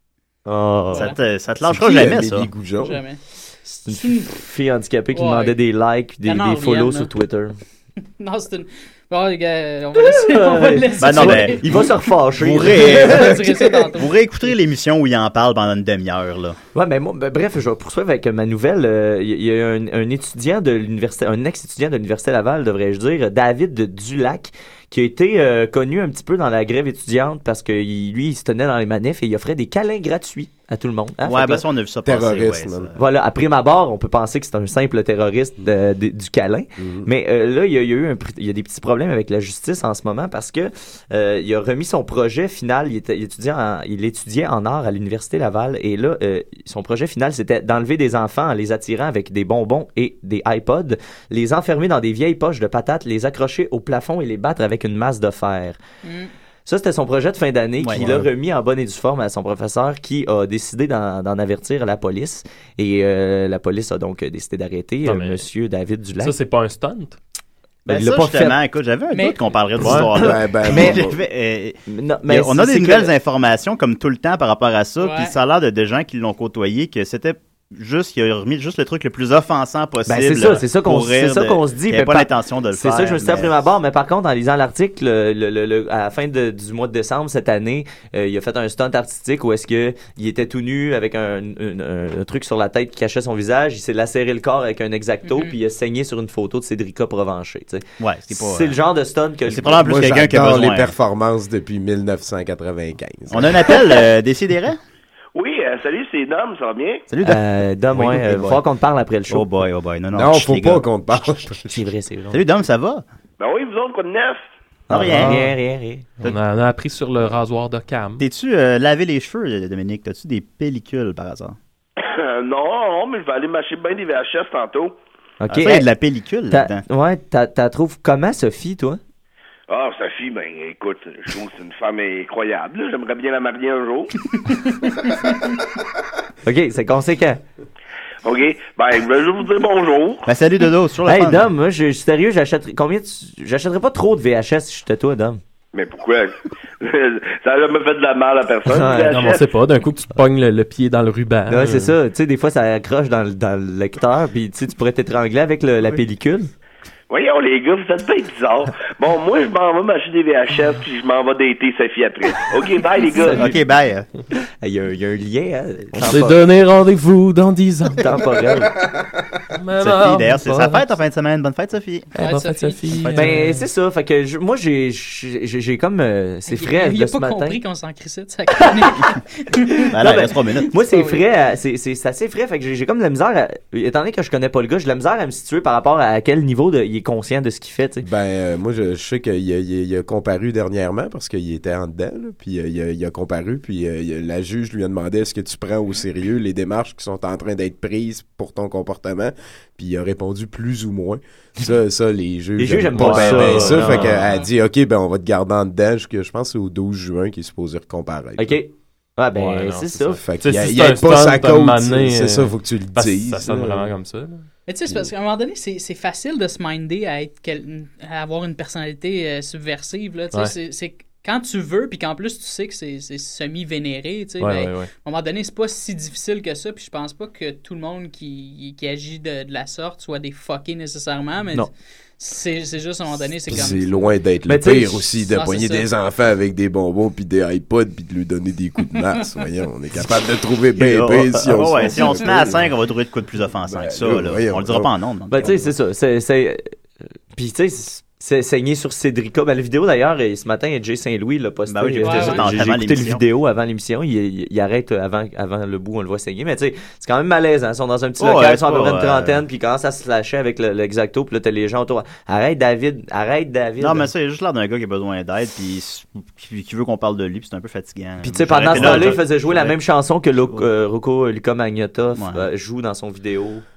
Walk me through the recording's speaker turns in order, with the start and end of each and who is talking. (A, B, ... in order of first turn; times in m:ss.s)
0:00.5-0:01.1 A
0:00.9-0:01.2 B
0:00.9-0:02.5 C
0:01.6-0:03.0 D
0:02.8-0:04.3 B
0:03.9-0:07.5 A
0:05.1-0:05.6 B
0:06.2-0:07.1 B
0:08.2-0:12.0 B
0:09.9-0:13.4 A
0:11.0-0:11.8 C
0:12.4-0:16.6 C
0:12.5-0:14.2 B
0:16.7-0:31.6 A
0:31.2-0:33.0 C
0:32.0-0:32.9 D
0:33.0-0:55.8 A
0:36.8-0:37.1 D
0:56.0-0:56.3 B
0:56.6-1:06.3 A
0:57.8-0:58.3 C
1:05.0-1:05.4 E
1:06.2-1:07.2 E
1:07.8-1:23.5 C
1:07.9-1:08.6 A
1:09.1-1:09.4 B
1:09.8-1:10.1 E
1:10.1-1:11.2 D
1:10.2-1:11.1 A
1:11.9-1:13.1 A
1:15.0-1:15.3 B
1:20.1-1:39.9 A
1:35.2-1:35.5 B
1:38.0-1:38.8 C
1:39.5-1:40.9 C
1:39.8-1:43.7 D
1:43.3-1:44.8 C
1:45.3-1:47.1 F
1:47.1-1:48.6 C
1:47.2-1:49.5 A
1:49.3-1:50.9 C
1:50.1-1:51.8 D
1:51.7-1:52.4 A
1:52.3-1:53.0 C
1:53.4-1:54.4 F
1:54.9-1:56.1 A
1:54.9-1:55.4 C
1:55.0-1:55.6 E
1:56.2-1:58.2 E
1:58.2-2:01.6 C
2:02.0-2:04.9 F
2:05.4-2:05.9 A
2:05.5-2:06.8 C
2:06.5-2:09.0 A
2:09.7-2:14.1 F
2:16.4-2:17.4 A
2:18.2-2:20.3 F
2:20.2-2:21.5 C
2:21.0-2:25.4 A
2:25.7-2:29.5 F
2:28.6-2:29.3 A
2:29.0-2:31.9 E
2:31.5-2:36.5 A
2:37.1-2:43.5 F
2:43.2-2:44.1 C
2:44.3-2:46.4 A
2:46.0-2:48.3 E
2:48.0-2:48.7 A
2:49.5-2:50.9 E
2:49.8-2:52.1 C
2:52.2-2:52.8 B
2:52.2-2:53.6 E
2:53.1-2:57.6 A
2:56.5-3:00.1 B
2:58.6-2:58.9 A
2:59.7-3:08.0 A
2:59.9-3:00.7 C
3:00.8-3:01.2 B
3:08.0-3:28.6 D
3:22.6-3:24.2 A
3:22.9-3:24.3 E
3:28.4-3:30.2 A
3:29.3-3:34.4 E
3:30.2-3:33.9 D
3:34.7-3:54.1 B
3:44.4-3:44.9 E
3:53.5-4:02.7 D
3:54.5-3:55.1 A
3:55.3-3:55.9 B
4:00.8-4:05.6 C
4:03.7-4:05.7 D
4:05.3-4:06.6 A
4:07.3-4:24.1 A
4:11.7-4:13.2 C
4:12.0-4:12.5 B
4:18.2-4:19.4 C
4:23.8-4:29.8 C
4:28.2-4:33.6 A
4:32.1-4:32.4 C